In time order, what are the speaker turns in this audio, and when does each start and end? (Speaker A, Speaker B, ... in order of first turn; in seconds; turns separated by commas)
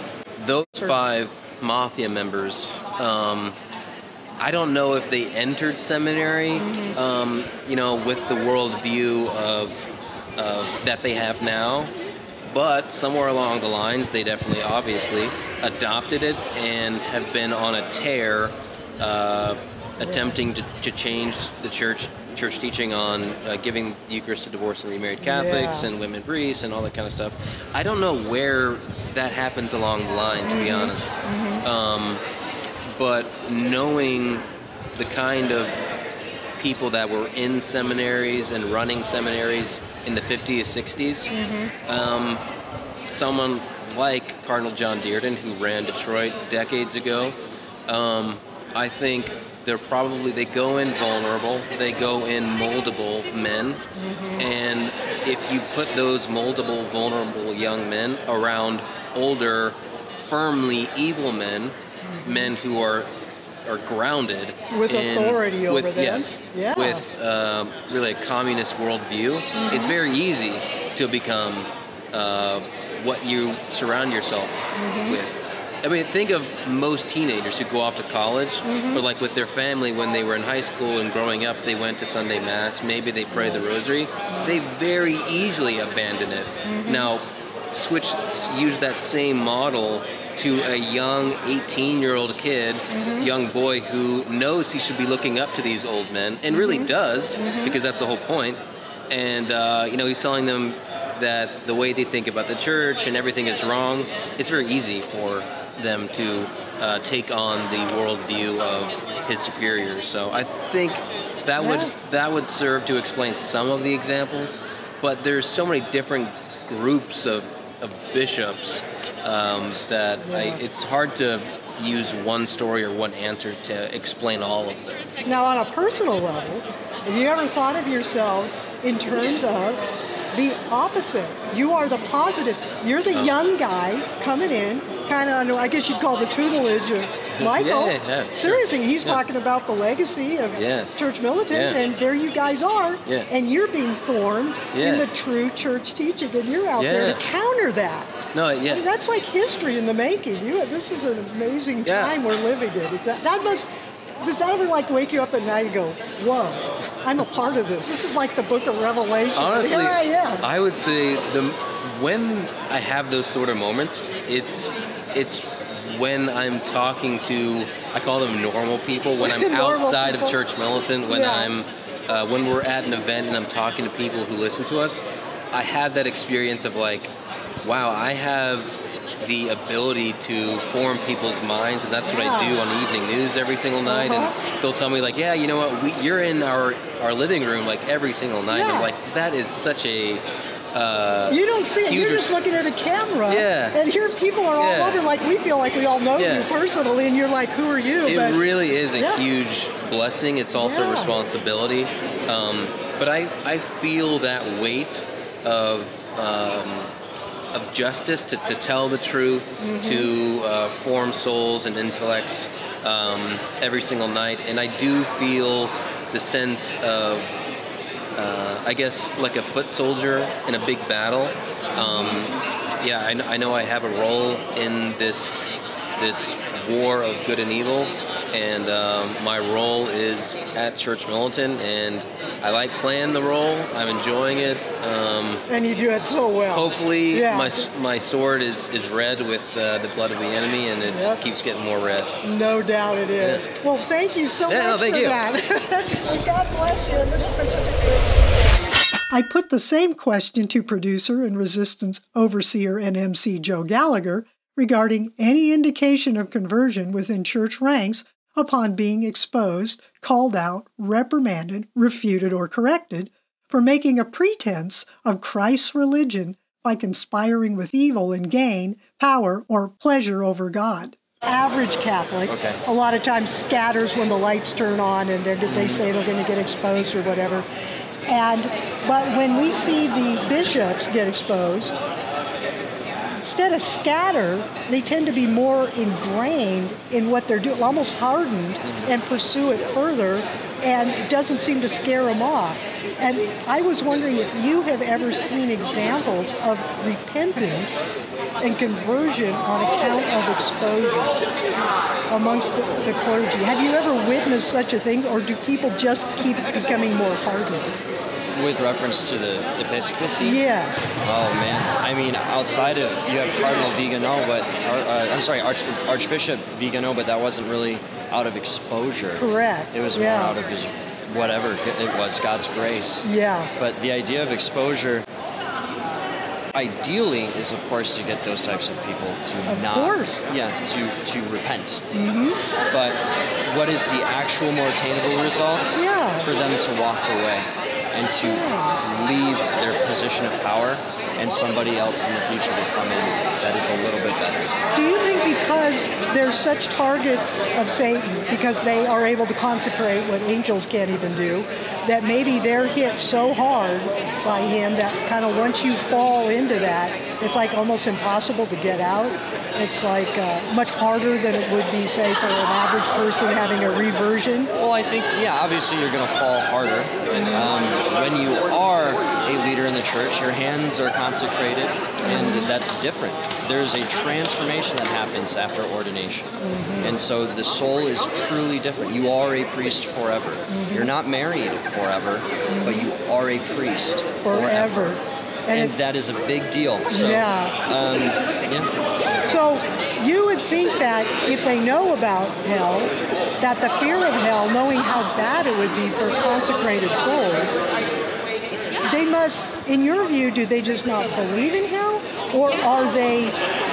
Speaker A: 0.4-3.6, Speaker A: 4.4-11.9, Speaker B: 6.6-6.9, Speaker A: 12.5-32.2, Speaker B: 20.0-20.3, Speaker B: 25.2-25.9, Speaker B: 30.4-31.6, Speaker A: 33.0-35.8, Speaker A: 36.6-41.3, Speaker B: 41.3-41.7, Speaker A: 41.9-42.4, Speaker A: 43.1-47.4, Speaker A: 47.9-53.8, Speaker B: 54.0-54.5, Speaker A: 54.4-63.1, Speaker B: 62.0-62.5, Speaker A: 63.6-125.0, Speaker B: 64.7-67.0, Speaker B: 69.5-69.9, Speaker B: 74.7-75.2, Speaker B: 78.6-79.0, Speaker B: 83.3-83.6, Speaker B: 84.3-84.5, Speaker B: 86.6-87.1, Speaker B: 92.9-93.3, Speaker B: 96.5-97.7, Speaker B: 111.6-111.9, Speaker B: 120.2-120.6, Speaker B: 125.2-148.1, Speaker A: 133.1-133.3, Speaker A: 137.3-139.2, Speaker A: 140.5-141.8, Speaker A: 144.7-145.2, Speaker A: 146.8-147.2, Speaker A: 148.3-148.8, Speaker B: 148.7-153.7, Speaker A: 151.8-152.2, Speaker B: 154.2-160.4, Speaker A: 159.3-177.1, Speaker B: 169.2-170.4, Speaker B: 171.1-171.5, Speaker A: 177.6-192.4, Speaker B: 182.0-182.6, Speaker B: 183.8-184.3, Speaker B: 188.5-188.9, Speaker B: 191.3-198.4, Speaker A: 193.3-193.8, Speaker A: 194.6-195.1, Speaker A: 196.2-196.5, Speaker A: 198.1-206.9, Speaker B: 198.9-199.2, Speaker B: 200.5-201.1, Speaker A: 207.5-217.4, Speaker B: 209.6-210.1, Speaker A: 218.2-235.4, Speaker B: 221.8-222.2, Speaker B: 235.5-237.7, Speaker A: 236.5-242.2, Speaker B: 240.8-241.2, Speaker B: 242.2-248.4, Speaker A: 243.2-243.5, Speaker A: 244.5-245.2, Speaker B: 249.1-277.5, Speaker C: 272.2-272.6, Speaker C: 275.5-275.8, Speaker B: 278.1-281.8, Speaker B: 283.2-297.8, Speaker B: 298.4-301.2, Speaker B: 302.1-307.8, Speaker C: 308.3-310.4, Speaker B: 310.2-310.8, Speaker C: 311.0-325.1, Speaker B: 319.2-320.4, Speaker B: 323.0-323.5, Speaker C: 326.5-331.8, Speaker B: 329.4-330.2, Speaker B: 331.9-332.4, Speaker C: 332.7-344.6, Speaker B: 335.7-336.3, Speaker B: 338.2-338.8, Speaker B: 344.7-364.5, Speaker C: 364.5-384.9, Speaker B: 367.1-367.5, Speaker B: 372.0-372.5, Speaker B: 376.4-377.0, Speaker B: 380.5-380.9, Speaker B: 382.5-382.9, Speaker B: 384.2-385.7, Speaker C: 385.5-388.7, Speaker B: 386.9-387.6, Speaker B: 389.2-397.5, Speaker B: 398.8-403.4